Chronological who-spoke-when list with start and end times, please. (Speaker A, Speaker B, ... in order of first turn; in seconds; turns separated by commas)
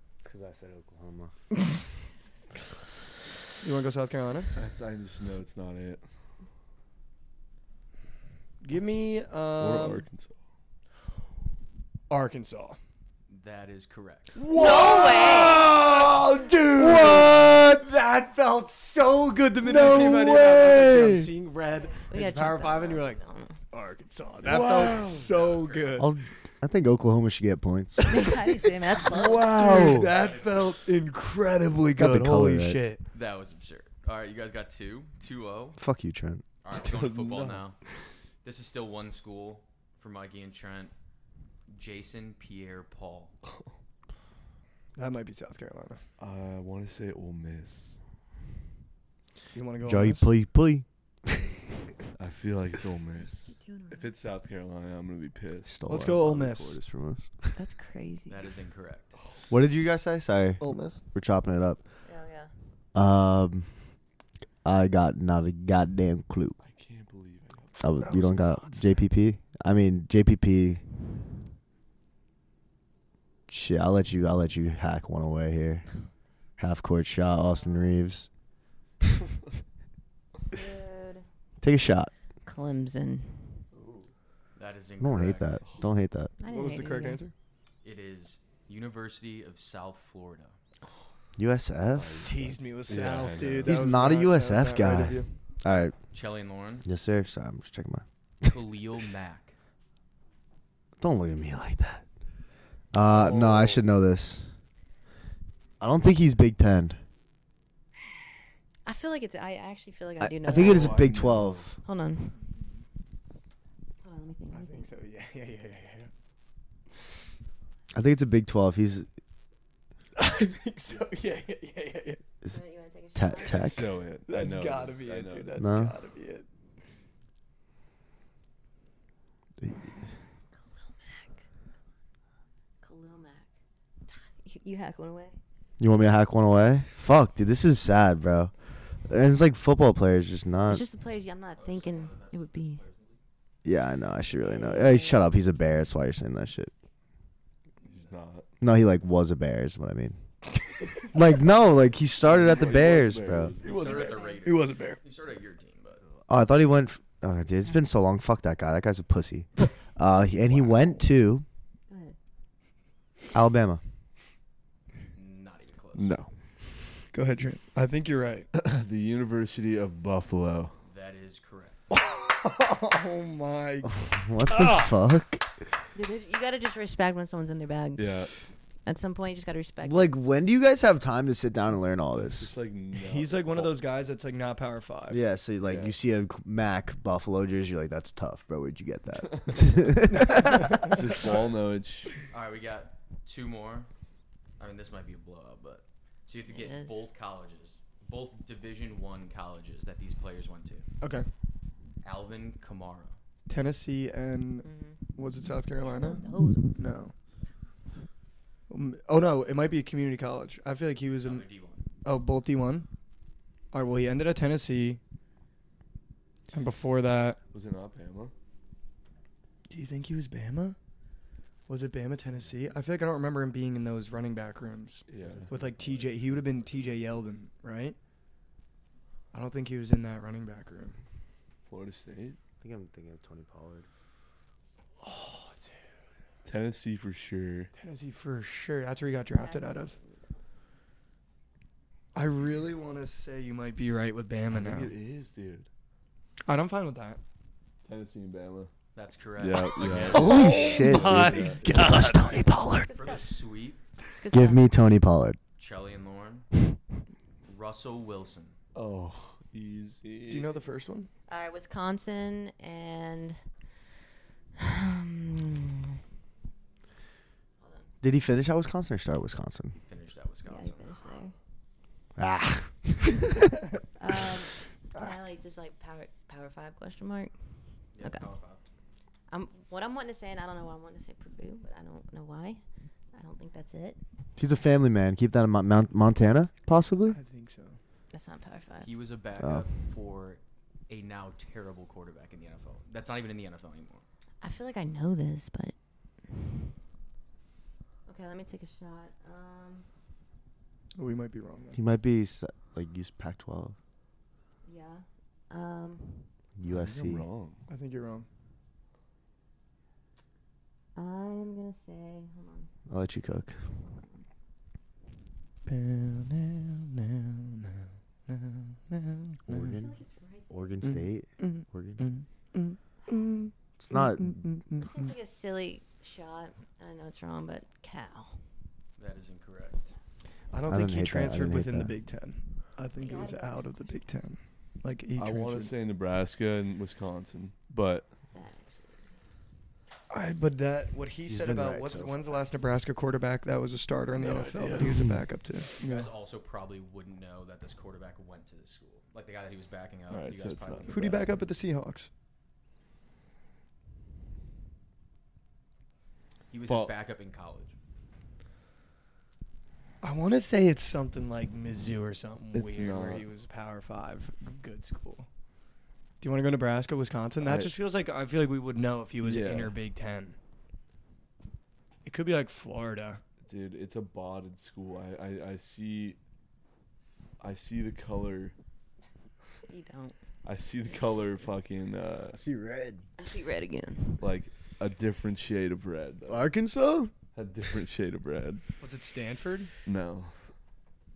Speaker A: 0.2-1.3, Speaker B: 3.6-4.5, Speaker C: 4.6-6.0, Speaker B: 8.6-10.1, Speaker C: 9.6-10.3, Speaker B: 12.1-12.8, Speaker D: 13.3-14.5, Speaker B: 14.3-26.1, Speaker E: 14.5-15.7, Speaker A: 16.8-17.5, Speaker A: 19.6-21.3, Speaker E: 22.1-23.6, Speaker C: 24.4-25.3, Speaker D: 25.1-26.1, Speaker A: 26.0-28.3, Speaker E: 28.1-30.0, Speaker B: 28.9-33.0, Speaker A: 29.5-30.1, Speaker D: 30.0-30.7, Speaker A: 32.0-32.8, Speaker D: 33.1-35.8, Speaker A: 35.8-36.4, Speaker D: 36.6-37.8, Speaker C: 36.8-37.6, Speaker D: 38.4-40.9, Speaker D: 41.7-43.3, Speaker B: 45.0-46.0, Speaker C: 46.2-48.0, Speaker B: 49.5-50.3, Speaker A: 49.9-51.5, Speaker C: 52.2-55.8, Speaker E: 53.5-54.1, Speaker A: 55.6-57.6, Speaker B: 55.9-56.8, Speaker E: 57.6-58.5, Speaker D: 58.3-59.2, Speaker A: 59.5-61.8, Speaker B: 60.6-61.0, Speaker E: 62.0-62.5, Speaker A: 62.9-63.7, Speaker A: 64.6-66.6, Speaker C: 66.6-67.8, Speaker A: 67.8-70.8, Speaker B: 68.0-68.9, Speaker A: 73.5-75.9, Speaker A: 76.6-78.3, Speaker E: 77.5-78.0, Speaker E: 80.5-81.2, Speaker A: 81.6-82.1, Speaker E: 82.5-83.6, Speaker C: 83.7-84.1, Speaker D: 84.6-85.7, Speaker A: 85.0-86.3, Speaker E: 86.4-87.2, Speaker B: 86.5-87.3, Speaker D: 87.8-90.6, Speaker A: 91.4-92.3, Speaker C: 91.9-93.8, Speaker B: 92.2-95.2, Speaker A: 93.7-96.0, Speaker C: 94.8-95.3, Speaker D: 96.1-96.9, Speaker A: 96.8-98.6, Speaker D: 98.5-99.5, Speaker A: 101.0-102.0, Speaker A: 102.9-104.5, Speaker C: 103.1-103.8, Speaker A: 105.8-107.0, Speaker E: 108.9-111.1, Speaker A: 110.2-111.8, Speaker C: 110.5-111.7, Speaker E: 111.8-112.4, Speaker E: 114.0-114.8, Speaker B: 114.5-116.1, Speaker A: 117.9-119.1, Speaker B: 120.2-122.2, Speaker E: 122.5-123.8, Speaker A: 123.2-123.9, Speaker C: 123.4-125.6, Speaker B: 124.3-126.5, Speaker A: 125.6-126.0, Speaker A: 129.6-129.9, Speaker E: 131.0-131.3, Speaker E: 132.8-133.5, Speaker E: 134.1-135.4, Speaker A: 135.8-138.5, Speaker A: 139.1-140.8, Speaker E: 140.7-142.8, Speaker D: 141.6-143.2, Speaker A: 143.7-146.7, Speaker E: 144.4-145.3, Speaker C: 147.8-148.5, Speaker A: 148.6-150.2, Speaker A: 151.1-153.6, Speaker C: 152.2-154.3, Speaker D: 153.6-156.0, Speaker B: 153.8-155.0, Speaker E: 154.0-154.3, Speaker A: 156.3-161.4, Speaker E: 161.9-162.2, Speaker A: 163.3-163.8, Speaker D: 165.1-166.2, Speaker C: 165.9-166.3, Speaker B: 167.1-168.5, Speaker C: 168.5-170.8, Speaker D: 170.8-171.9, Speaker B: 171.9-174.9, Speaker A: 173.8-175.5, Speaker E: 175.9-178.2, Speaker C: 178.0-178.3, Speaker E: 178.9-180.1, Speaker A: 179.8-182.5, Speaker C: 182.2-183.8, Speaker B: 183.0-185.2, Speaker A: 185.1-191.0, Speaker C: 185.6-185.9, Speaker C: 189.3-190.0, Speaker C: 190.8-192.2, Speaker D: 192.3-193.9, Speaker D: 194.6-200.9, Speaker E: 196.5-197.1, Speaker B: 201.0-201.3, Speaker D: 202.0-203.2, Speaker B: 203.5-206.2, Speaker E: 204.6-205.0, Speaker E: 205.7-206.8, Speaker B: 206.7-207.1, Speaker B: 208.7-211.5, Speaker D: 211.2-211.9, Speaker B: 212.0-212.9, Speaker B: 213.7-215.0, Speaker B: 216.5-217.4, Speaker C: 217.5-218.3, Speaker B: 219.7-220.8, Speaker B: 221.7-228.0, Speaker C: 225.1-225.7, Speaker A: 225.2-225.5, Speaker B: 229.3-231.0, Speaker C: 231.7-232.4, Speaker A: 232.6-233.9, Speaker B: 235.0-235.9, Speaker C: 236.4-237.7, Speaker B: 237.8-240.0, Speaker E: 239.3-240.1, Speaker B: 242.2-244.9, Speaker C: 244.5-245.7, Speaker B: 246.5-247.2, Speaker C: 247.8-248.7, Speaker D: 248.9-250.5, Speaker C: 249.4-251.7, Speaker B: 250.1-252.9, Speaker A: 250.1-252.6, Speaker E: 252.9-253.3, Speaker D: 252.9-253.8, Speaker E: 254.1-254.7, Speaker A: 254.3-255.4, Speaker D: 255.6-256.5, Speaker D: 257.4-258.6, Speaker C: 258.7-260.5, Speaker B: 260.3-261.1, Speaker E: 261.3-263.4, Speaker E: 264.6-265.8, Speaker E: 267.6-267.9, Speaker A: 268.0-269.8, Speaker D: 269.9-271.0, Speaker E: 270.4-271.3, Speaker A: 272.2-273.5, Speaker E: 274.0-277.3, Speaker D: 277.9-278.6, Speaker E: 279.3-282.6, Speaker E: 283.1-284.0, Speaker A: 284.4-287.2, Speaker B: 287.1-287.8, Speaker E: 288.1-288.9, Speaker D: 288.8-294.0, Speaker A: 289.4-289.6, Speaker E: 294.4-295.7, Speaker E: 298.1-299.9, Speaker B: 300.9-301.8, Speaker A: 301.7-303.8, Speaker E: 304.6-306.3, Speaker A: 306.6-307.3, Speaker C: 306.7-307.6, Speaker B: 307.7-308.3, Speaker E: 311.0-312.7, Speaker A: 312.9-313.6, Speaker B: 315.7-319.7, Speaker A: 319.5-319.9, Speaker E: 319.6-320.6, Speaker A: 320.5-322.0, Speaker B: 320.8-325.1, Speaker A: 323.8-324.4, Speaker E: 324.8-328.4, Speaker D: 329.0-329.9, Speaker B: 330.5-335.7, Speaker A: 330.7-332.0, Speaker E: 333.0-333.9, Speaker C: 335.2-338.1, Speaker E: 338.3-339.1, Speaker B: 340.1-346.1, Speaker A: 341.3-342.2, Speaker C: 344.2-345.1, Speaker A: 344.8-345.2, Speaker D: 345.6-351.3, Speaker C: 350.1-351.3, Speaker B: 350.9-352.1, Speaker D: 356.5-357.8, Speaker C: 356.7-356.9, Speaker B: 360.0-365.3, Speaker C: 362.5-363.3, Speaker B: 366.2-370.4, Speaker C: 367.4-367.7, Speaker C: 369.2-369.7, Speaker B: 372.1-373.2, Speaker C: 373.4-376.2, Speaker C: 377.4-378.5, Speaker E: 379.7-380.1, Speaker C: 380.4-382.4, Speaker A: 382.3-383.1, Speaker E: 383.2-384.2, Speaker C: 384.2-386.4, Speaker A: 386.3-387.1, Speaker C: 387.3-388.6, Speaker B: 388.8-389.7, Speaker C: 389.9-390.3